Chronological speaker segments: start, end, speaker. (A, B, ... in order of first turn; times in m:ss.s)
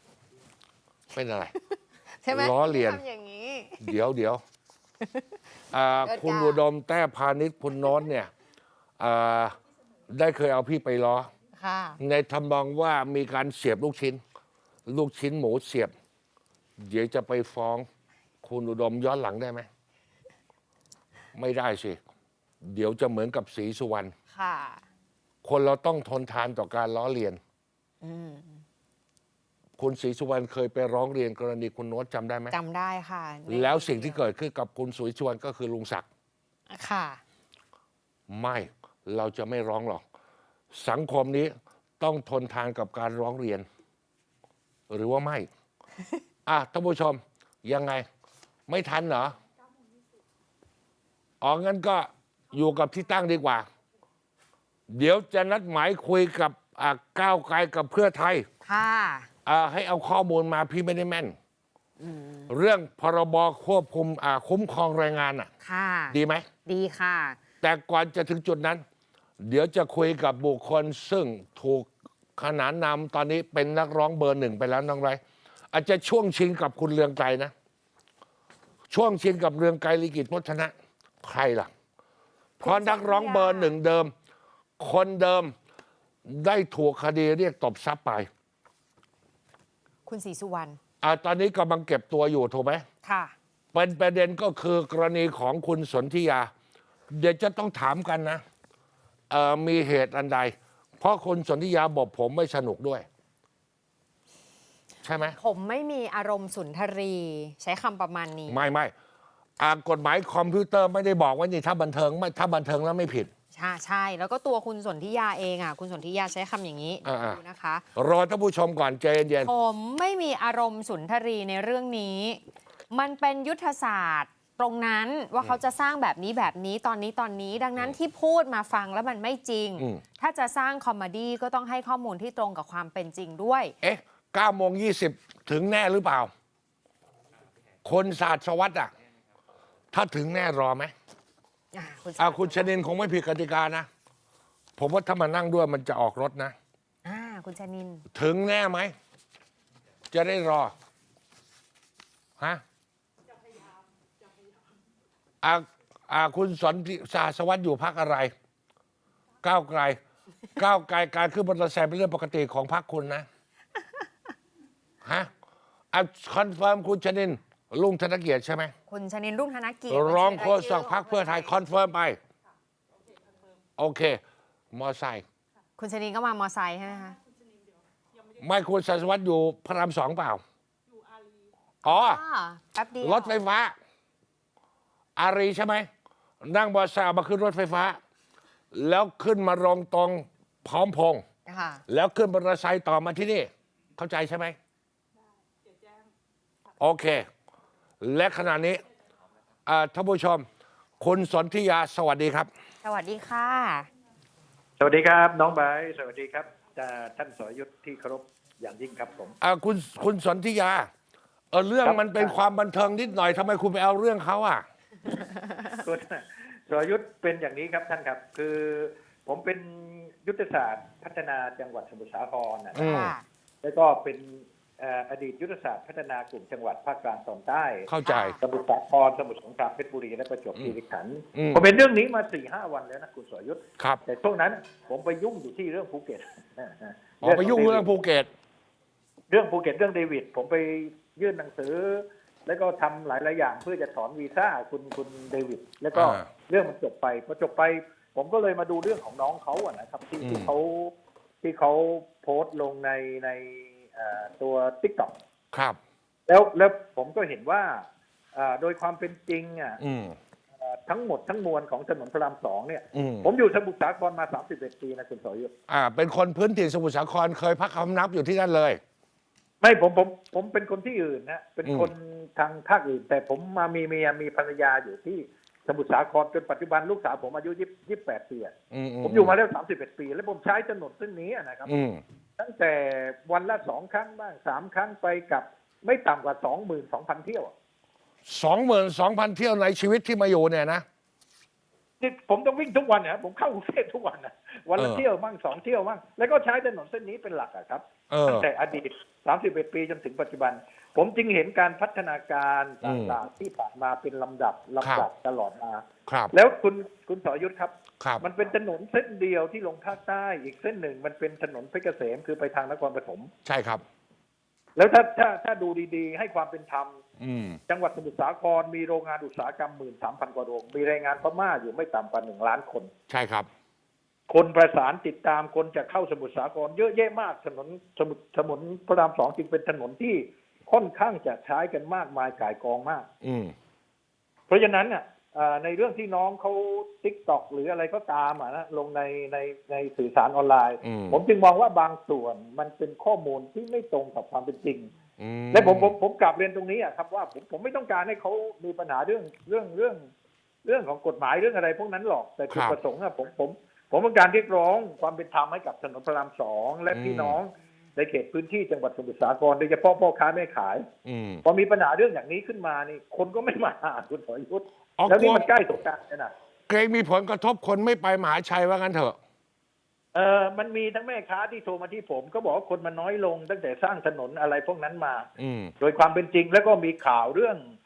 0:01.1-0:01.5 A
0:01.7-0:03.9 B
0:02.3-0:03.0 A
0:03.8-0:04.4 A
0:05.7-0:08.3 A
0:06.0-0:06.6 B
0:09.0-0:09.6 A
0:10.1-0:11.3 A
0:11.6-0:12.0 B
0:12.0-0:14.2 A
0:14.9-0:15.9 A
0:16.8-0:17.9 A
0:18.4-0:19.7 A
0:21.3-0:22.0 A
0:22.6-0:24.1 A
0:24.3-0:24.8 B
0:25.4-0:27.4 A
0:28.0-0:28.6 B
0:29.8-0:32.5 A
0:32.5-0:34.2 B
0:33.5-0:36.1 A
0:36.7-0:37.2 B
0:38.3-0:40.0 A
0:40.7-0:43.7 A
0:44.9-0:45.5 A
0:46.5-0:48.1 A
0:48.7-0:49.4 A
0:51.4-0:53.7 A
0:54.9-0:58.5 A
0:58.6-0:59.3 B
0:59.5-1:01.4 A
1:02.0-1:02.5 B
1:02.5-1:05.5 A
1:05.6-1:07.4 B
1:06.1-1:06.4 A
1:07.6-1:08.8 A
1:09.4-1:15.2 A
1:15.7-1:17.5 A
1:18.9-1:20.7 A
1:21.2-1:21.7 A
1:22.6-1:23.8 B
1:22.6-1:24.1 A
1:24.8-1:25.5 A
1:26.2-1:28.3 A
1:30.1-1:30.8 B
1:31.0-1:32.8 A
1:33.0-1:33.3 B
1:33.7-1:36.5 A
1:37.1-1:38.4 A
1:39.3-1:43.1 A
1:45.0-1:45.4 A
1:45.4-1:48.6 B
1:48.5-1:48.9 A
1:49.6-1:53.3 A
1:53.5-1:57.9 B
1:57.0-1:57.4 A
1:58.0-1:59.5 A
1:59.4-2:13.7 B
2:13.8-2:16.3 A
2:17.8-2:18.9 A
2:19.9-2:20.9 A
2:21.7-2:22.7 B
2:22.2-2:23.9 A
2:24.8-2:26.6 A
2:27.0-2:28.0 B
2:28.1-2:28.9 A
2:30.1-2:30.7 A
2:35.4-2:38.3 A
2:39.4-2:40.0 A
2:40.6-2:43.3 A
2:45.0-2:45.3 A
2:45.9-2:48.7 A
2:48.9-2:51.5 B
2:49.9-2:52.2 A
2:53.8-2:54.2 A
2:54.7-2:55.2 A
2:55.8-2:57.2 B
2:58.4-3:00.4 A
3:01.8-3:02.2 A
3:01.9-3:03.4 B
3:03.0-3:03.7 A
3:05.2-3:05.9 A
3:06.4-3:08.0 A
3:08.7-3:11.2 A
3:11.5-3:11.8 B
3:11.9-3:14.6 A
3:16.8-3:17.3 A
3:18.0-3:18.8 A
3:19.7-3:20.5 A
3:21.0-3:22.5 A
3:22.8-3:23.9 B
3:24.8-3:29.4 C
3:29.4-3:30.9 A
3:31.5-3:34.6 A
3:31.8-3:32.4 C
3:35.8-3:43.0 C
3:42.8-3:43.2 A
3:42.8-3:43.2 B
3:43.6-3:47.9 C
3:47.9-3:48.4 A
3:48.0-3:48.4 B
3:48.4-3:57.9 C
3:51.3-3:51.7 A
3:57.2-3:58.3 A
3:59.3-4:15.2 C
4:05.9-4:06.3 A
4:10.2-4:10.5 A
4:15.5-4:15.8 A
4:16.3-4:19.8 C
4:19.8-4:20.2 A
4:20.6-4:25.5 C
4:22.9-4:23.3 A
4:25.7-4:28.8 A
4:29.6-4:41.7 C
4:31.6-4:31.9 A
4:38.7-4:39.4 A
4:41.7-4:42.0 A
4:42.4-4:47.5 C
4:48.3-4:50.8 A
4:52.0-5:13.3 C
4:54.8-4:55.0 A
4:58.1-4:58.5 A
5:02.8-5:03.2 A
5:04.8-5:05.1 A
5:06.1-5:06.3 A
5:08.0-5:08.2 A
5:13.4-5:13.8 A
5:14.8-5:17.0 C
5:17.2-5:17.6 A
5:17.7-5:22.9 C
5:23.1-5:23.5 A
5:24.3-5:33.1 C
5:33.2-5:33.6 A
5:34.5-5:44.9 C
5:40.8-5:41.2 A
5:45.2-5:45.9 A
5:45.5-5:50.1 C
5:50.6-6:00.9 C
5:52.5-5:52.8 A
5:56.9-5:57.4 A
6:01.0-6:01.4 A
6:01.4-6:06.3 C
6:05.0-6:05.5 A
6:06.7-6:09.2 A
6:10.1-6:15.3 C
6:15.4-6:15.7 A
6:15.8-6:17.6 C